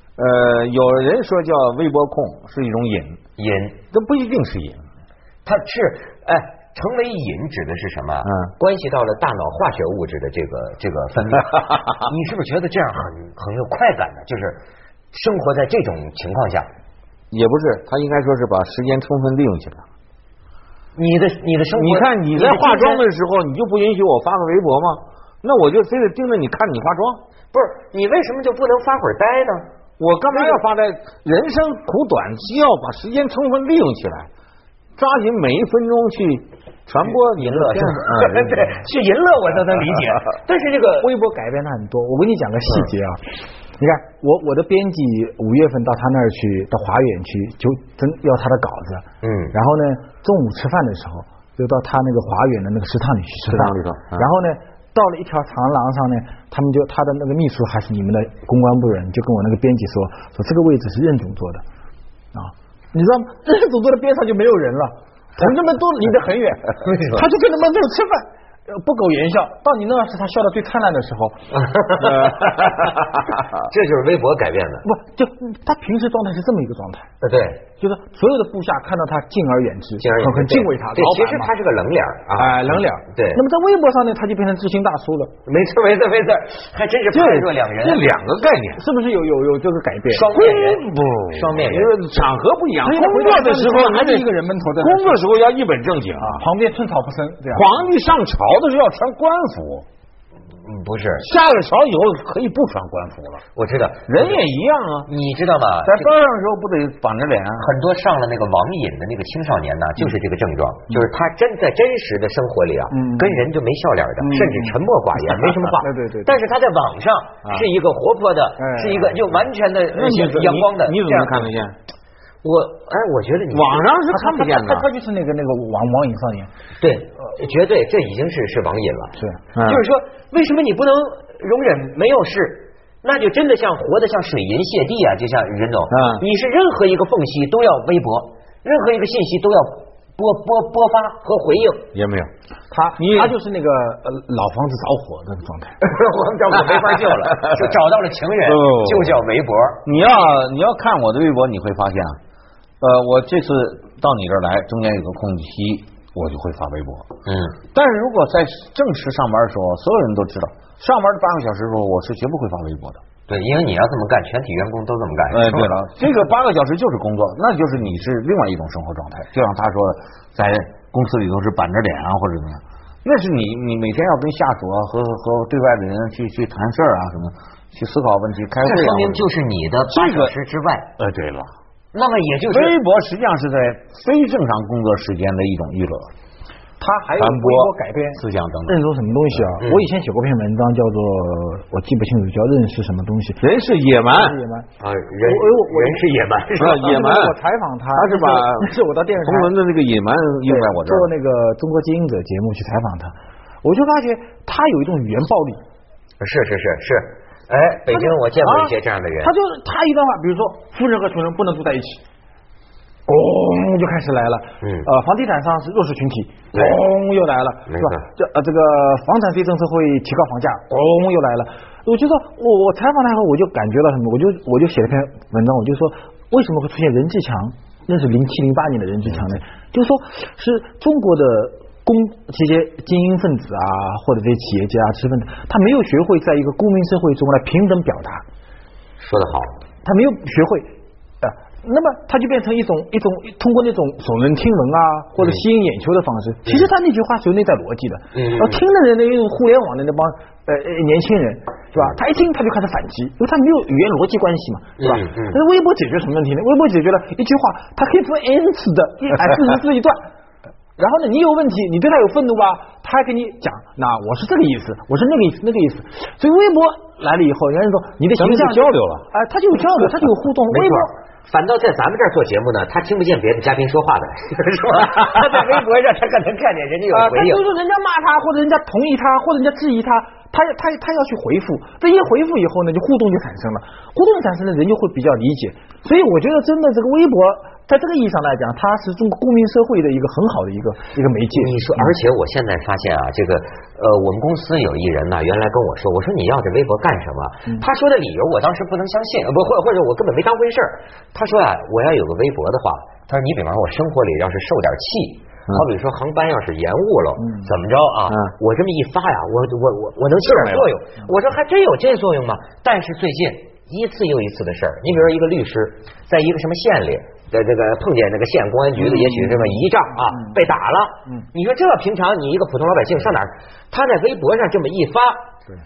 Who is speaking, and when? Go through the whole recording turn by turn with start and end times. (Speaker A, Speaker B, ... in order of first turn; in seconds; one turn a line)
Speaker A: 0.2-3.2
Speaker B: 3.4-3.8
Speaker A: 3.9-4.8
Speaker B: 5.5-14.6
Speaker A: 8.2-8.5
Speaker B: 15.1-16.7
Speaker A: 17.3-19.8
Speaker B: 20.9-23.0
Speaker A: 21.8-27.2
Speaker B: 27.5-29.7
Speaker A: 30.0-34.3
Speaker B: 30.3-30.6
Speaker A: 35.0-38.8
Speaker B: 37.4-41.1
Speaker C: 41.0-43.2
Speaker C: 43.8-61.6
Speaker B: 49.2-49.5
Speaker A: 53.5-54.2
Speaker C: 62.3-71.3
Speaker B: 66.8-67.2
Speaker B: 71.5-74.8
Speaker C: 74.8-77.1
Speaker B: 77.2-77.6
Speaker C: 77.8-81.5
Speaker B: 80.0-83.4
Speaker C: 82.3-85.3
Speaker B: 85.5-88.1
Speaker A: 87.1-88.8
Speaker C: 88.8-90.3
Speaker B: 90.1-91.9
Speaker A: 90.3-96.5
Speaker C: 92.8-95.2
Speaker C: 96.2-97.7
Speaker A: 97.5-99.8
Speaker B: 100.6-101.3
Speaker A: 101.2-103.4
Speaker B: 103.6-104.4
Speaker A: 104.1-105.1
Speaker B: 105.1-106.1
Speaker A: 105.8-107.7
Speaker B: 107.6-121.5
Speaker C: 112.9-113.5
Speaker C: 114.2-114.8
Speaker C: 115.8-116.3
Speaker A: 117.4-117.7
Speaker C: 118.6-119.3
Speaker A: 119.9-121.8
Speaker B: 122.4-123.9
Speaker A: 123.5-124.8
Speaker C: 124.1-126.5
Speaker B: 126.8-141.9
Speaker A: 129.5-129.8
Speaker A: 135.9-136.2
Speaker A: 141.9-142.3
Speaker C: 142.7-145.8
Speaker A: 143.0-143.3
Speaker B: 145.8-149.9
Speaker A: 147.3-147.7
Speaker A: 148.4-149.2
Speaker A: 149.8-152.2
Speaker A: 152.8-157.1
Speaker B: 157.2-157.6
Speaker A: 157.7-163.0
Speaker B: 163.3-165.7
Speaker A: 165.3-179.3
Speaker B: 178.6-180.9
Speaker A: 179.9-180.3
Speaker A: 181.0-181.5
Speaker B: 181.9-182.8
Speaker A: 182.5-186.1
Speaker C: 186.8-193.4
Speaker A: 187.2-188.8
Speaker B: 189.6-189.9
Speaker A: 193.4-194.4
Speaker C: 194.1-194.7
Speaker B: 194.8-197.0
Speaker C: 195.2-196.0
Speaker A: 196.6-197.4
Speaker C: 196.6-199.5
Speaker A: 197.9-198.7
Speaker A: 199.2-201.1
Speaker C: 200.5-205.6
Speaker B: 206.2-209.3
Speaker C: 207.9-212.0
Speaker C: 213.1-238.2
Speaker B: 214.6-214.9
Speaker B: 216.5-216.8
Speaker B: 217.7-218.1
Speaker B: 239.0-239.6
Speaker C: 239.8-240.7
Speaker C: 241.2-260.0
Speaker B: 245.2-245.4
Speaker B: 248.1-248.6
Speaker B: 254.8-255.4
Speaker C: 260.8-270.9
Speaker A: 268.1-269.1
Speaker B: 270.5-277.4
Speaker C: 276.9-291.8
Speaker B: 291.3-325.2
Speaker C: 307.2-307.5
Speaker A: 310.2-310.7
Speaker C: 320.1-320.4